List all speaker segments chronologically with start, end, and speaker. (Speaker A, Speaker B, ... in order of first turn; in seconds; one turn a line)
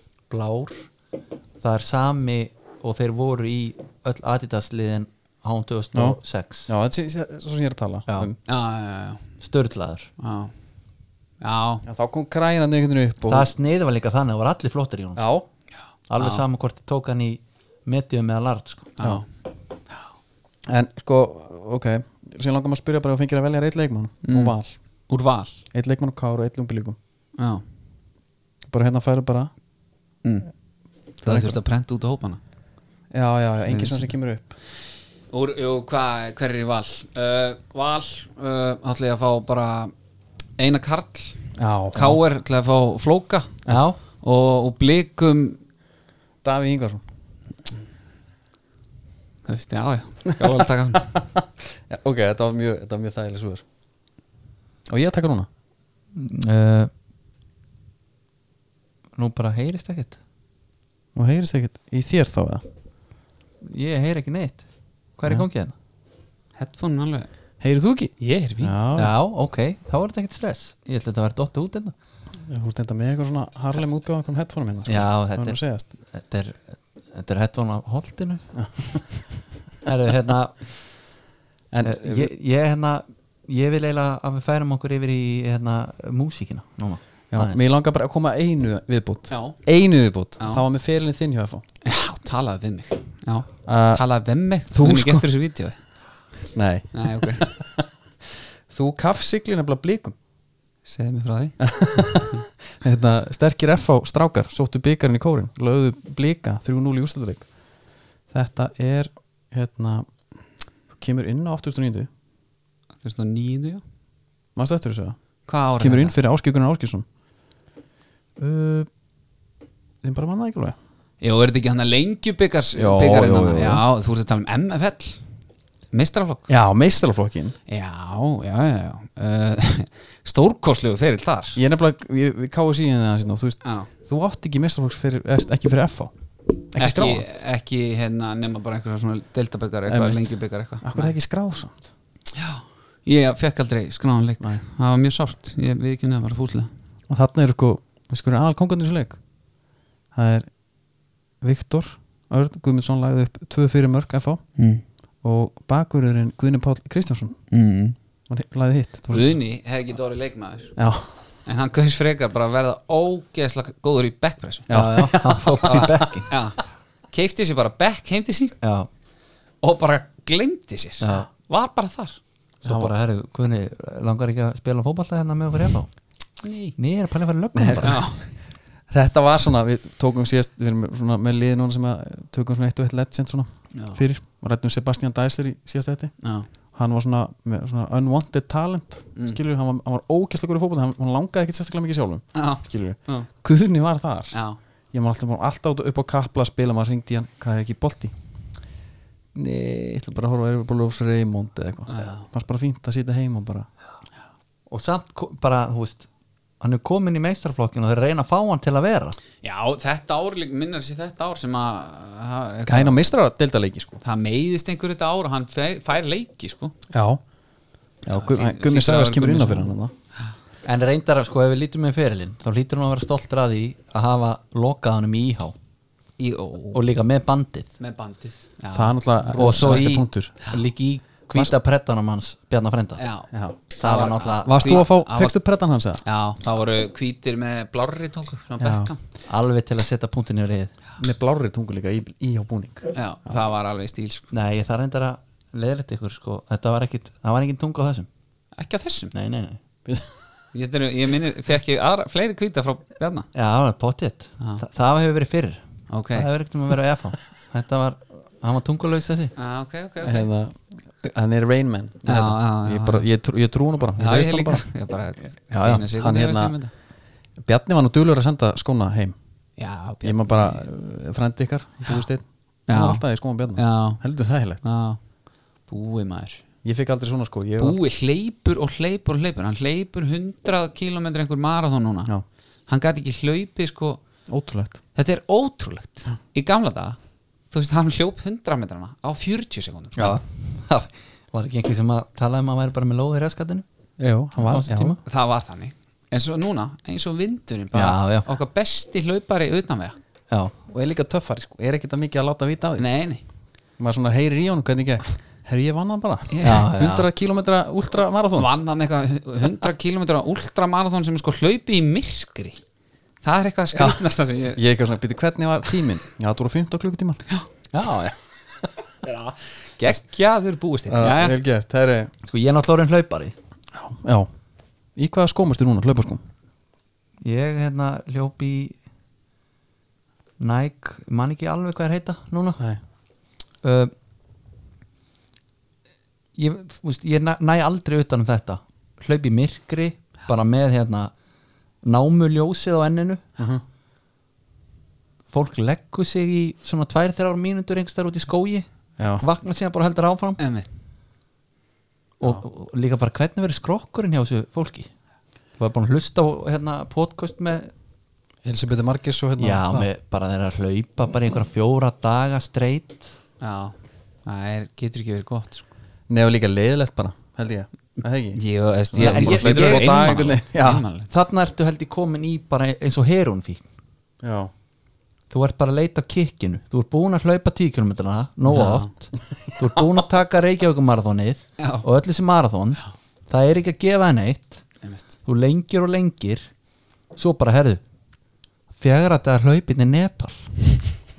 Speaker A: 0.3-0.9
Speaker A: 1.6-6.7
Speaker B: 5.9-8.4
Speaker C: 8.5-9.3
Speaker A: 9.4-10.1
Speaker C: 10.2-10.5
Speaker C: 11.4-11.8
Speaker B: 11.9-13.5
Speaker A: 13.3-15.3
Speaker B: 15.2-15.4
Speaker A: 16.1-18.9
Speaker C: 16.2-16.4
Speaker C: 19.0-19.3
Speaker B: 20.7-24.8
Speaker C: 24.2-24.6
Speaker C: 25.1-25.6
Speaker B: 25.7-27.0
Speaker C: 27.4-27.6
Speaker B: 28.7-29.5
Speaker C: 30.2-30.5
Speaker C: 31.2-32.4
Speaker B: 31.2-31.6
Speaker B: 33.1-34.5
Speaker C: 33.7-34.1
Speaker C: 35.3-39.9
Speaker C: 40.6-43.6
Speaker B: 41.6-42.2
Speaker A: 43.7-44.0
Speaker C: 44.2-45.6
Speaker B: 46.4-47.0
Speaker C: 49.5-51.1
Speaker B: 50.3-53.6
Speaker B: 54.9-55.5
Speaker A: 56.1-56.9
Speaker A: 59.2-60.2
Speaker B: 61.1-62.6
Speaker A: 63.6-65.7
Speaker C: 66.5-67.3
Speaker B: 67.6-69.1
Speaker C: 68.2-68.8
Speaker A: 69.0-71.9
Speaker B: 72.5-75.9
Speaker A: 74.9-78.5
Speaker B: 78.5-79.0
Speaker A: 79.8-80.7
Speaker B: 81.7-82.3
Speaker A: 81.8-87.6
Speaker B: 87.3-91.6
Speaker C: 89.3-89.6
Speaker C: 91.8-95.8
Speaker B: 93.7-94.0
Speaker B: 94.7-95.3
Speaker B: 96.5-97.9
Speaker C: 96.9-97.5
Speaker B: 98.7-100.2
Speaker C: 100.8-102.2
Speaker B: 101.6-107.6
Speaker B: 108.3-110.2
Speaker B: 110.9-112.1
Speaker C: 113.0-113.8
Speaker B: 114.6-115.2
Speaker C: 115.5-116.2
Speaker B: 115.8-117.1
Speaker B: 118.4-118.9
Speaker B: 120.0-120.8
Speaker C: 121.2-125.2
Speaker B: 122.8-123.8
Speaker C: 125.9-126.5
Speaker B: 126.5-127.6
Speaker C: 127.7-131.6
Speaker B: 131.6-136.1
Speaker C: 133.6-133.9
Speaker B: 136.7-137.2
Speaker C: 136.8-141.1
Speaker B: 139.9-140.3
Speaker B: 140.8-141.9
Speaker C: 142.3-146.7
Speaker B: 147.1-149.2
Speaker B: 150.1-150.5
Speaker B: 151.4-154.4
Speaker C: 154.6-154.8
Speaker B: 155.2-157.4
Speaker C: 157.5-158.0
Speaker B: 158.3-159.4
Speaker C: 159.1-160.8
Speaker B: 160.8-161.1
Speaker C: 161.4-164.7
Speaker B: 164.7-166.1
Speaker A: 164.7-166.3
Speaker C: 166.3-166.6
Speaker C: 167.1-168.6
Speaker A: 168.6-168.9
Speaker C: 169.6-172.2
Speaker A: 171.0-171.3
Speaker B: 172.6-172.9
Speaker A: 172.6-175.9
Speaker C: 176.4-176.8
Speaker A: 176.8-178.0
Speaker B: 177.6-178.2
Speaker C: 177.8-178.3
Speaker B: 178.9-186.2
Speaker C: 183.7-184.0
Speaker C: 186.2-186.5
Speaker B: 186.7-194.4
Speaker C: 192.3-193.3
Speaker C: 194.3-194.6
Speaker B: 194.9-198.1
Speaker B: 199.3-203.7
Speaker C: 201.9-202.2
Speaker A: 204.7-206.1
Speaker A: 206.6-209.2
Speaker C: 209.4-213.0
Speaker B: 212.7-214.0
Speaker C: 214.0-216.8
Speaker B: 216.9-217.2
Speaker B: 218.1-219.9
Speaker C: 218.1-219.7
Speaker A: 220.6-225.6
Speaker C: 226.2-226.8
Speaker A: 226.7-227.7
Speaker C: 227.8-229.8
Speaker B: 228.7-230.3
Speaker A: 229.3-233.1
Speaker C: 233.0-235.4
Speaker B: 233.3-233.6
Speaker A: 233.8-234.9
Speaker B: 234.4-236.0
Speaker C: 236.0-239.0
Speaker B: 238.6-238.9
Speaker A: 239.3-240.7
Speaker B: 241.0-242.9
Speaker C: 242.9-244.3
Speaker A: 244.3-248.1
Speaker C: 248.6-249.1
Speaker A: 249.1-249.6
Speaker B: 249.9-250.1
Speaker C: 250.5-253.3
Speaker A: 253.3-259.3
Speaker C: 255.9-256.3
Speaker C: 259.4-260.3
Speaker B: 260.0-264.6
Speaker C: 262.1-263.1
Speaker C: 264.0-266.7
Speaker A: 265.5-265.9
Speaker B: 266.0-266.7
Speaker B: 267.4-269.2
Speaker C: 269.6-270.7
Speaker B: 270.0-274.6
Speaker C: 272.7-275.0
Speaker C: 275.7-276.4
Speaker B: 276.6-277.8
Speaker C: 277.6-282.1
Speaker C: 282.7-284.0
Speaker B: 284.3-284.8
Speaker C: 284.9-287.0
Speaker C: 287.5-290.2
Speaker A: 290.0-293.6
Speaker B: 294.0-295.0
Speaker A: 294.4-295.0
Speaker C: 295.1-300.0
Speaker A: 297.7-298.3
Speaker B: 300.7-302.9
Speaker C: 302.8-303.2
Speaker B: 303.8-308.5
Speaker C: 306.3-306.7
Speaker A: 306.4-307.1
Speaker C: 308.4-312.6
Speaker C: 313.2-314.6
Speaker B: 313.7-314.0
Speaker B: 314.6-317.2
Speaker C: 317.3-318.1
Speaker C: 318.9-321.4
Speaker B: 320.9-322.1
Speaker A: 322.2-323.3
Speaker B: 323.7-324.3
Speaker B: 325.0-326.2
Speaker A: 327.2-328.8
Speaker A: 330.4-332.6
Speaker A: 333.6-333.9
Speaker A: 336.4-341.1
Speaker A: 341.8-343.2
Speaker B: 343.4-343.6
Speaker A: 345.3-348.7
Speaker B: 349.0-349.2
Speaker A: 349.2-350.4
Speaker C: 350.4-350.7
Speaker A: 352.2-354.9
Speaker A: 355.6-357.7
Speaker B: 358.4-359.9
Speaker A: 359.4-363.1
Speaker C: 363.4-365.6
Speaker B: 366.1-370.8
Speaker C: 368.3-371.1
Speaker A: 369.0-370.1
Speaker A: 371.1-373.6
Speaker B: 374.2-374.5
Speaker A: 375.3-384.6
Speaker C: 378.5-378.9
Speaker C: 381.6-381.9
Speaker A: 385.3-386.5
Speaker A: 387.2-387.8
Speaker A: 388.8-390.5